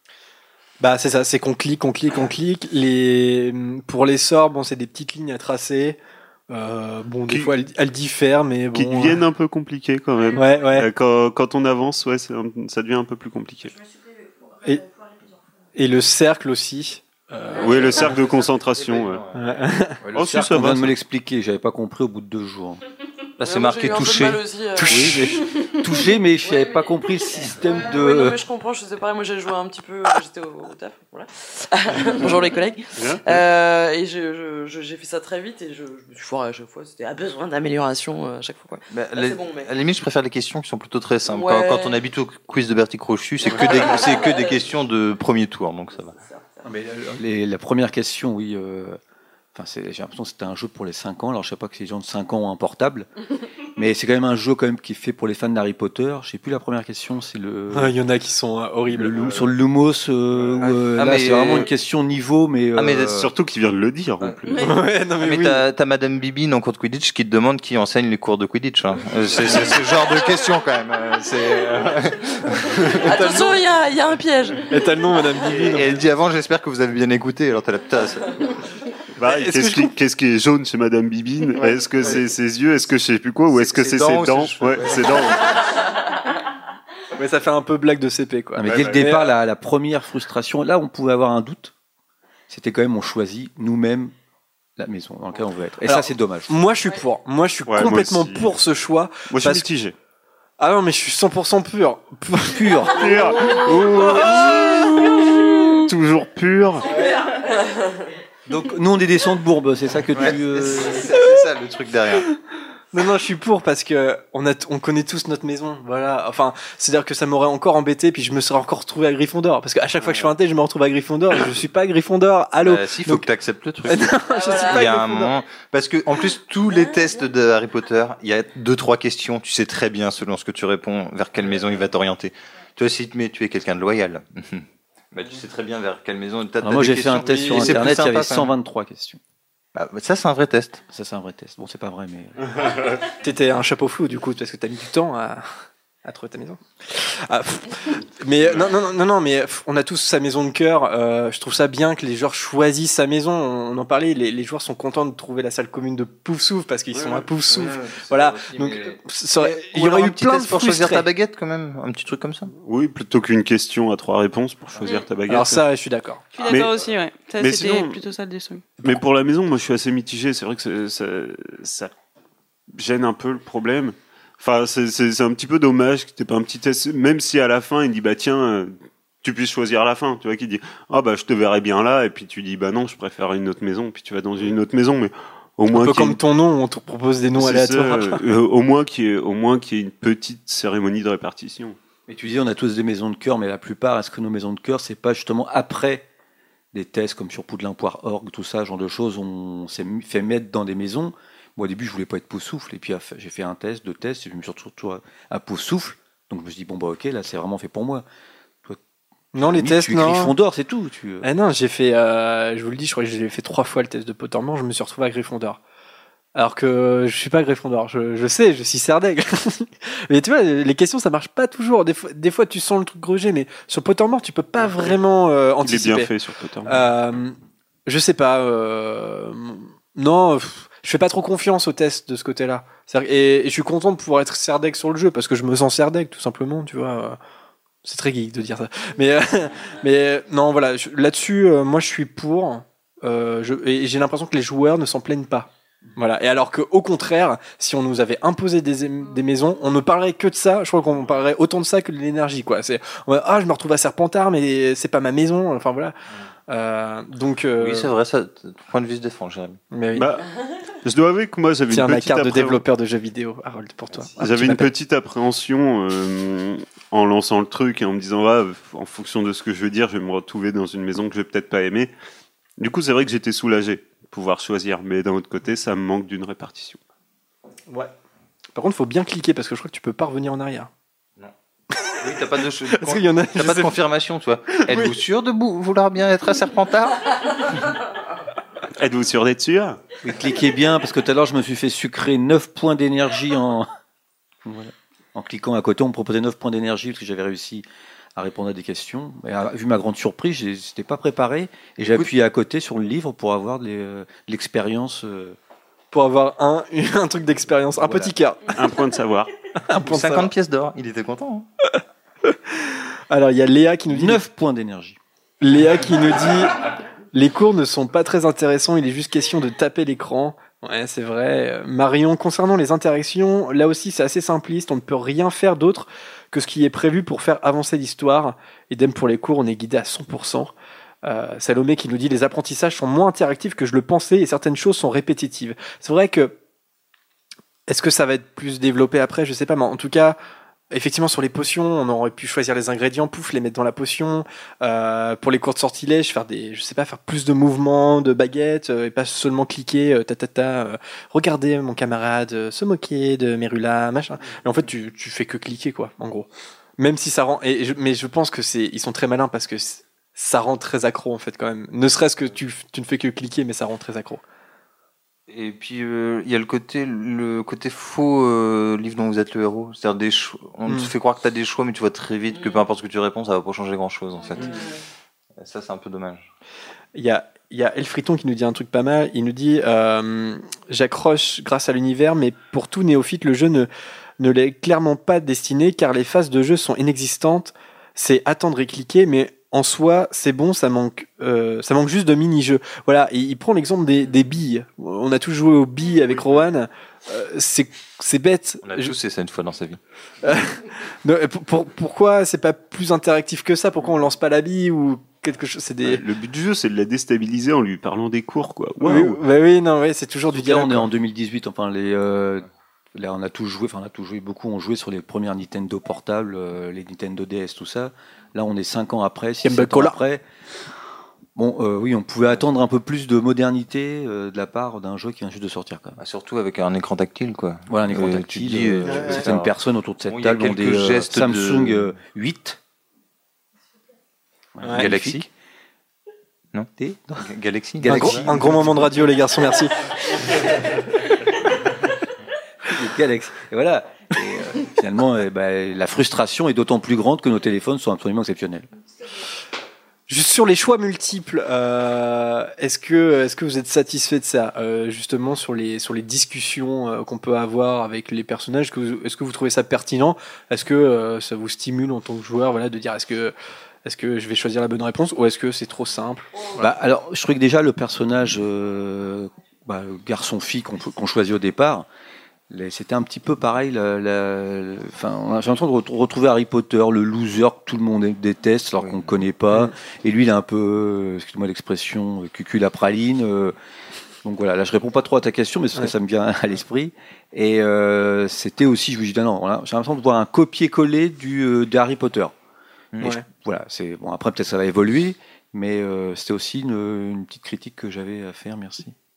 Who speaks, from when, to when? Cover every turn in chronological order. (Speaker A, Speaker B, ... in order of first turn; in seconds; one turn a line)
Speaker A: 0.8-6.0
Speaker A: 6.5-9.2
Speaker B: 8.7-13.7
Speaker A: 10.3-10.9
Speaker A: 15.8-18.1
Speaker B: 17.6-19.2
Speaker C: 18.0-19.5
Speaker A: 19.3-20.0
Speaker D: 20.0-22.8
Speaker B: 20.1-21.0
Speaker C: 23.4-24.5
Speaker E: 23.4-25.3
Speaker A: 24.8-25.5
Speaker D: 24.9-28.4
Speaker E: 26.4-39.7
Speaker B: 33.0-33.4
Speaker C: 38.9-46.2
Speaker E: 41.3-42.0
Speaker E: 43.5-44.6
Speaker E: 46.2-46.6
Speaker D: 46.6-49.0
Speaker D: 49.5-53.1
Speaker D: 53.8-58.0
Speaker A: 57.7-59.2
Speaker D: 58.9-63.2
Speaker B: 59.0-59.5
Speaker C: 60.6-61.7
Speaker C: 62.8-63.3
Speaker B: 63.1-64.6
Speaker C: 64.2-73.0
Speaker A: 64.6-65.6
Speaker A: 72.8-73.6
Speaker E: 73.0-75.2
Speaker A: 74.7-76.0
Speaker C: 75.5-78.4
Speaker B: 79.2-85.5
Speaker A: 79.3-79.9
Speaker C: 83.5-85.5
Speaker A: 87.2-89.3
Speaker D: 88.5-91.7
Speaker B: 88.6-89.0
Speaker D: 92.5-94.1
Speaker D: 94.8-96.5
Speaker A: 95.8-99.7
Speaker B: 97.7-98.5
Speaker B: 99.3-99.9
Speaker A: 100.6-102.6
Speaker D: 102.5-103.3
Speaker B: 102.9-106.9
Speaker E: 103.6-104.8
Speaker A: 103.7-103.9
Speaker E: 106.9-108.0
Speaker D: 108.5-111.1
Speaker C: 110.2-112.3
Speaker A: 112.9-123.3
Speaker B: 120.0-120.3
Speaker C: 122.6-138.5
Speaker A: 123.9-125.3
Speaker E: 124.3-124.9
Speaker D: 136.6-139.2
Speaker A: 137.2-137.9
Speaker C: 139.8-140.8
Speaker D: 140.9-142.8
Speaker B: 142.5-143.0
Speaker A: 143.1-161.1
Speaker B: 156.9-157.2
Speaker C: 157.5-162.5
Speaker B: 162.6-165.6
Speaker A: 165.3-166.3
Speaker C: 166.4-167.0
Speaker F: 166.4-168.7
Speaker B: 167.4-168.0
Speaker B: 168.8-171.9
Speaker B: 172.7-186.2
Speaker A: 185.7-188.2
Speaker B: 187.4-191.8
Speaker D: 192.1-196.1
Speaker D: 196.7-208.1
Speaker A: 209.3-210.3
Speaker D: 209.4-211.3
Speaker A: 211.2-215.6
Speaker A: 216.3-226.1
Speaker B: 225.6-226.9
Speaker A: 226.7-237.2
Speaker A: 237.8-256.0
Speaker A: 256.5-257.9
Speaker C: 257.6-259.6
Speaker A: 259.7-260.1
Speaker B: 260.0-260.2
Speaker B: 260.8-262.6
Speaker A: 261.7-264.7
Speaker B: 264.2-271.9
Speaker B: 272.6-276.8
Speaker A: 278.5-280.7
Speaker C: 282.0-287.5
Speaker A: 282.7-283.8
Speaker A: 284.6-285.0
Speaker B: 288.8-289.8
Speaker D: 290.0-293.7
Speaker D: 294.4-297.6
Speaker D: 298.2-305.4
Speaker A: 305.9-308.6
Speaker D: 307.8-308.1
Speaker B: 308.6-309.3
Speaker A: 309.7-310.3
Speaker C: 309.8-311.5
Speaker A: 312.3-314.2
Speaker D: 313.9-315.0
Speaker A: 315.4-330.5
Speaker A: 331.1-336.4
Speaker A: 337.7-340.2
Speaker A: 340.7-364.2
Speaker C: 365.3-374.7
Speaker A: 370.7-370.9
Speaker E: 372.3-372.6
Speaker E: 374.4-374.8
Speaker C: 375.4-376.3
Speaker A: 376.9-383.7
Speaker A: 384.2-398.9
Speaker C: 398.6-399.8
Speaker A: 400.2-406.0
Speaker B: 405.8-409.2
Speaker A: 408.8-410.9
Speaker D: 410.3-420.2
Speaker A: 419.4-420.0
Speaker D: 421.4-426.0
Speaker C: 426.0-429.5
Speaker D: 427.7-432.6
Speaker A: 428.9-429.3
Speaker C: 430.1-431.9
Speaker D: 434.6-435.2
Speaker A: 434.6-434.9
Speaker C: 434.7-435.3
Speaker C: 436.5-438.8
Speaker D: 436.8-437.1
Speaker A: 437.8-439.8
Speaker D: 437.9-438.6
Speaker D: 442.6-448.7
Speaker A: 450.1-463.3
Speaker A: 463.9-466.3
Speaker D: 466.6-471.9
Speaker D: 472.5-483.6
Speaker D: 484.2-492.3
Speaker D: 493.1-498.9